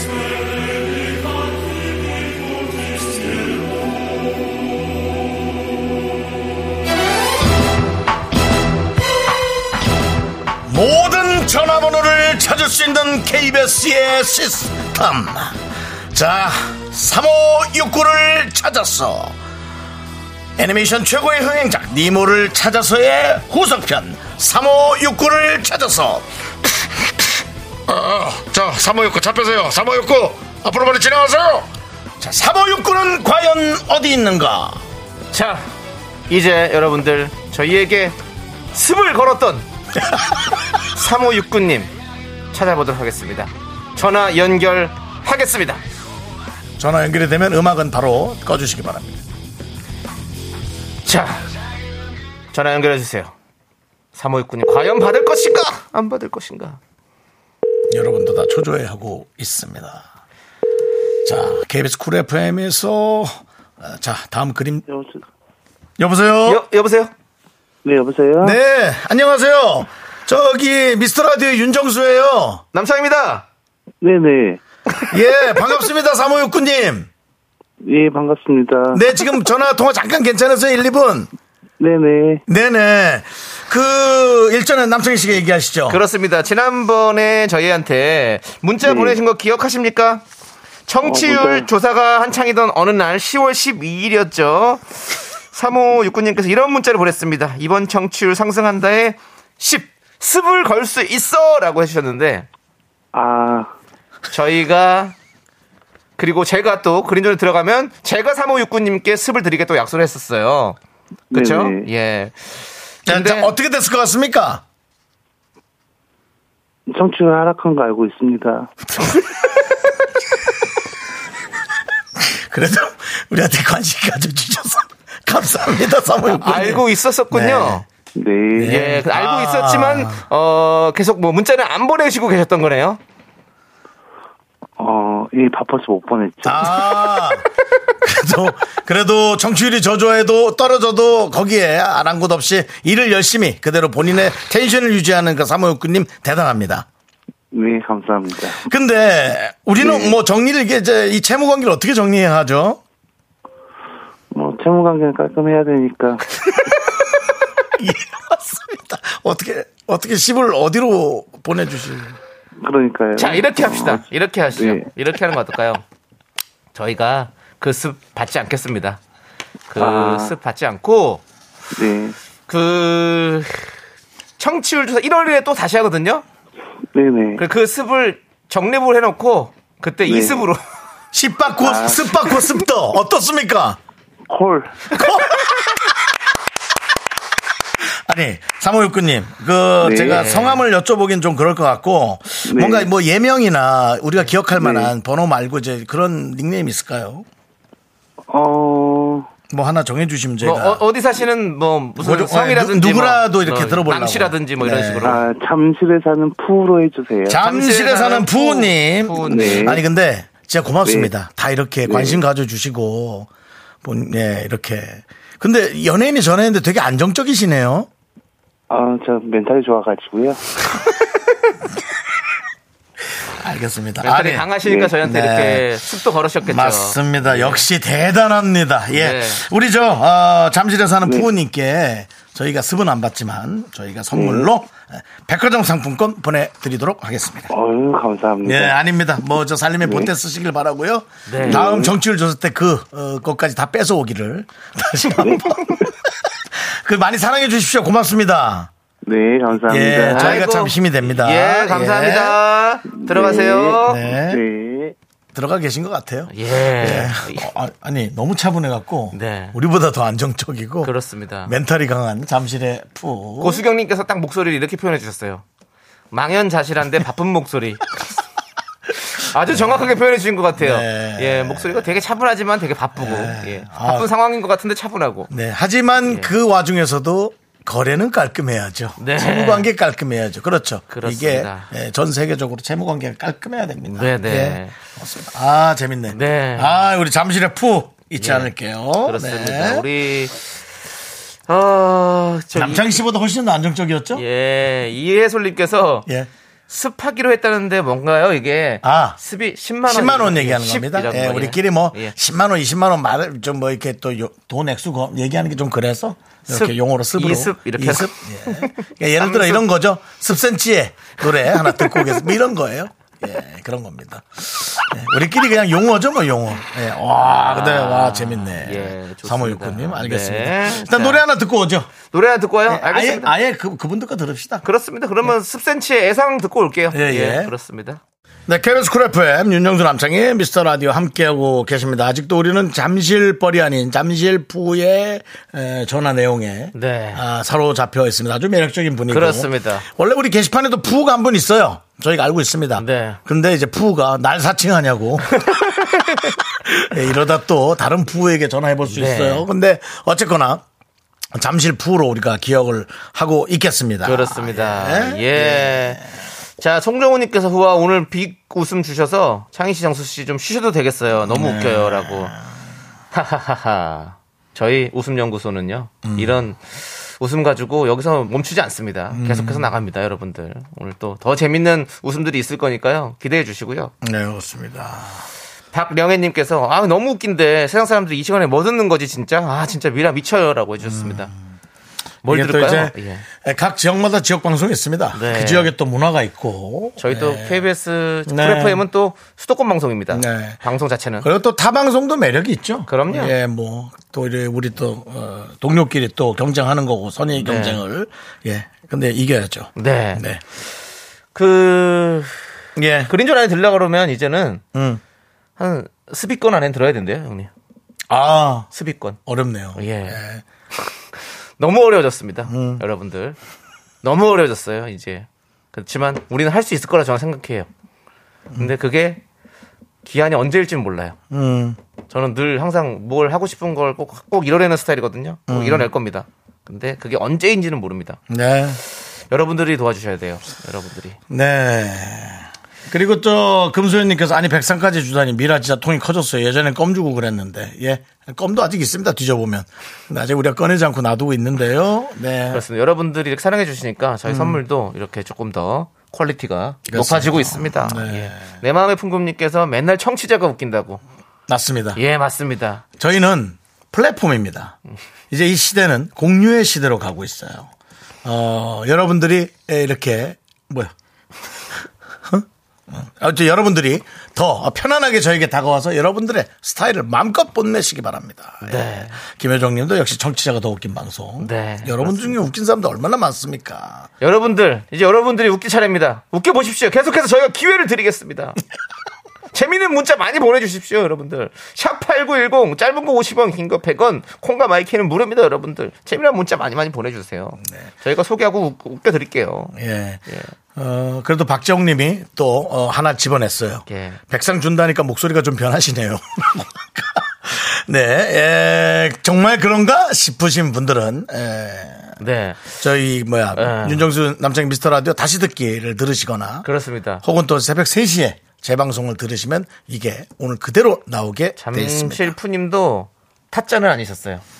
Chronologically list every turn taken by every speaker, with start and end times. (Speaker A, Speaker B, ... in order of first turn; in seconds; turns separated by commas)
Speaker A: 10.7-15.6, Speaker A: 16.1-19.4, Speaker A: 20.6-27.3, Speaker A: 27.9-31.7, Speaker A: 32.2-34.8, Speaker B: 35.3-35.6, Speaker B: 36.3-38.1, Speaker B: 38.7-39.6, Speaker A: 40.0-40.4, Speaker B: 40.9-41.9, Speaker B: 42.5-45.8, Speaker A: 46.8-49.2, Speaker B: 51.0-51.5, Speaker B: 52.5-53.3, Speaker B: 54.1-56.8, Speaker A: 57.9-60.0, Speaker A: 61.2-64.8, Speaker C: 64.9-65.2, Speaker A: 66.0-66.6, Speaker B: 66.4-67.1, Speaker C: 67.8-68.6, Speaker A: 68.4-72.6, Speaker B: 72.7-73.5, Speaker C: 74.0-74.6, Speaker A: 75.1-77.1, Speaker C: 77.8-79.0, Speaker A: 78.9-81.3, Speaker C: 81.8-82.4, Speaker A: 82.5-86.0, Speaker B: 85.9-90.2, Speaker C: 88.8-89.2, Speaker B: 90.9-94.8, Speaker C: 91.0-91.7, Speaker B: 95.5-102.5, Speaker C: 103.1-103.7, Speaker B: 104.3-105.1, Speaker B: 106.2-110.8, Speaker B: 111.3-113.5, Speaker C: 111.3-111.9, Speaker A: 113.0-114.6, Speaker C: 116.9-118.7, Speaker A: 122.2-127.8, Speaker B: 126.4-127.8, Speaker C: 128.2-128.8, Speaker A: 128.5-130.2, Speaker B: 128.6-133.0, Speaker C: 134.8-137.0, Speaker A: 136.4-137.4, Speaker A: 138.0-146.9, Speaker C: 147.5-148.6, Speaker A: 148.6-152.8, Speaker C: 149.8-150.1, Speaker C: 154.3-156.3, Speaker A: 157.7-162.2, Speaker C: 162.6-164.0, Speaker B: 163.2-165.8, Speaker C: 164.6-164.8, Speaker B: 166.7-169.0, Speaker B: 169.7-171.2, Speaker C: 169.8-170.3, Speaker C: 171.7-172.2, Speaker B: 172.5-173.6, Speaker B: 174.4-176.2, Speaker C: 176.9-177.4, Speaker B: 177.4-180.6, Speaker C: 180.1-180.4, Speaker A: 181.1-183.8, Speaker C: 181.6-182.4, Speaker C: 184.3-184.9, Speaker A: 184.9-185.8, Speaker A: 188.1-197.2, Speaker C: 189.8-190.2, Speaker B: 190.1-190.6, Speaker C: 192.4-192.9, Speaker C: 194.5-194.9, Speaker C: 198.3-199.3, Speaker A: 199.5-200.8, Speaker B: 200.4-205.2, Speaker A: 202.0-205.2, Speaker C: 205.0-207.4, Speaker A: 207.3-213.3, Speaker B: 207.4-209.8, Speaker C: 209.2-209.8, Speaker C: 210.8-211.1, Speaker C: 211.8-212.2, Speaker A: 213.8-217.9, Speaker C: 218.7-220.4, Speaker A: 223.3-225.8, Speaker B: 224.0-227.7, Speaker A: 226.4-237.5, Speaker B: 228.9-229.4, Speaker C: 234.1-234.5, Speaker C: 237.5-238.8, Speaker A: 238.4-248.7, Speaker C: 239.8-240.1, Speaker B: 241.2-241.6, Speaker C: 241.4-241.9, Speaker C: 245.2-245.8, Speaker C: 249.0-250.4, Speaker A: 249.6-252.4, Speaker B: 250.1-254.0, Speaker C: 252.9-254.9, Speaker A: 253.8-254.4, Speaker A: 255.3-260.9, Speaker B: 256.3-257.5, Speaker B: 259.1-259.6, Speaker B: 260.8-261.6, Speaker A: 261.4-263.6, Speaker B: 263.4-265.4, Speaker B: 266.1-268.1, Speaker B: 269.1-275.3, Speaker A: 269.5-269.9, Speaker A: 270.6-271.9, Speaker A: 272.9-274.1, Speaker A: 275.3-289.9, Speaker B: 276.0-276.3, Speaker B: 279.0-279.7, Speaker B: 280.9-281.7, Speaker B: 283.9-284.7, Speaker B: 286.1-286.8, Speaker B: 288.2-288.5, Speaker B: 289.0-290.4, Speaker B: 291.5-292.9, Speaker A: 292.5-294.2, Speaker B: 294.1-296.1, Speaker B: 296.7-302.1, Speaker A: 298.8-299.2, Speaker A: 299.9-321.9, Speaker B: 306.5-309.6, Speaker B: 311.4-312.3, Speaker B: 317.5-321.2, Speaker B: 322.1-323.3, Speaker A: 322.7-324.6, Speaker B: 324.6-328.0, Speaker A: 326.9-327.5, Speaker A: 328.5-345.4, Speaker B: 336.7-337.2, Speaker B: 339.1-339.9, Speaker B: 342.8-343.2, Speaker B: 345.4-346.3, Speaker A: 346.4-350.6, Speaker B: 348.9-349.4, Speaker A: 351.3-356.1, Speaker B: 354.0-356.0, Speaker B: 356.6-362.3, Speaker A: 361.2-362.4, Speaker B: 363.1-373.9, Speaker A: 366.0-366.4, Speaker A: 369.1-369.7, Speaker A: 374.0-375.2, Speaker B: 375.7-381.3, Speaker A: 380.8-381.4, Speaker B: 382.2-383.2, Speaker A: 382.2-387.6, Speaker B: 385.1-385.7, Speaker B: 387.0-391.3, Speaker A: 388.3-388.8, Speaker A: 390.1-390.6, Speaker A: 391.2-400.4, Speaker B: 392.9-393.3, Speaker B: 397.4-397.8, Speaker B: 399.8-400.2, Speaker B: 401.3-402.4, Speaker A: 402.8-403.1, Speaker B: 403.1-404.6, Speaker A: 404.7-405.0, Speaker B: 405.6-407.5, Speaker A: 408.1-408.7, Speaker B: 408.7-409.2, Speaker A: 409.2-410.4, Speaker B: 409.8-410.2, Speaker B: 411.6-413.4, Speaker A: 412.5-412.8, Speaker B: 414.0-417.7, Speaker B: 418.6-419.2, Speaker B: 420.0-421.2, Speaker A: 421.3-421.8, Speaker B: 422.1-428.2, Speaker A: 425.5-425.9, Speaker A: 428.3-428.8, Speaker B: 429.3-431.2, Speaker A: 431.3-442.6, Speaker B: 442.5-451.0, Speaker A: 444.3-444.6, Speaker A: 446.9-448.5, Speaker A: 451.5-452.0, Speaker B: 451.9-452.8, Speaker A: 453.0-454.8, Speaker A: 455.3-457.7, Speaker A: 458.2-460.9, Speaker A: 462.2-474.1, Speaker B: 468.6-469.2, Speaker B: 471.4-472.4, Speaker B: 474.2-478.6, Speaker B: 479.5-489.7, Speaker A: 489.7-490.2, Speaker B: 490.3-490.5, Speaker A: 490.7-502.2, Speaker B: 493.9-494.2, Speaker B: 502.2-502.8, Speaker A: 502.8-506.7, Speaker B: 503.5-504.1, Speaker B: 506.6-507.2, Speaker A: 507.2-512.3, Speaker B: 511.6-514.4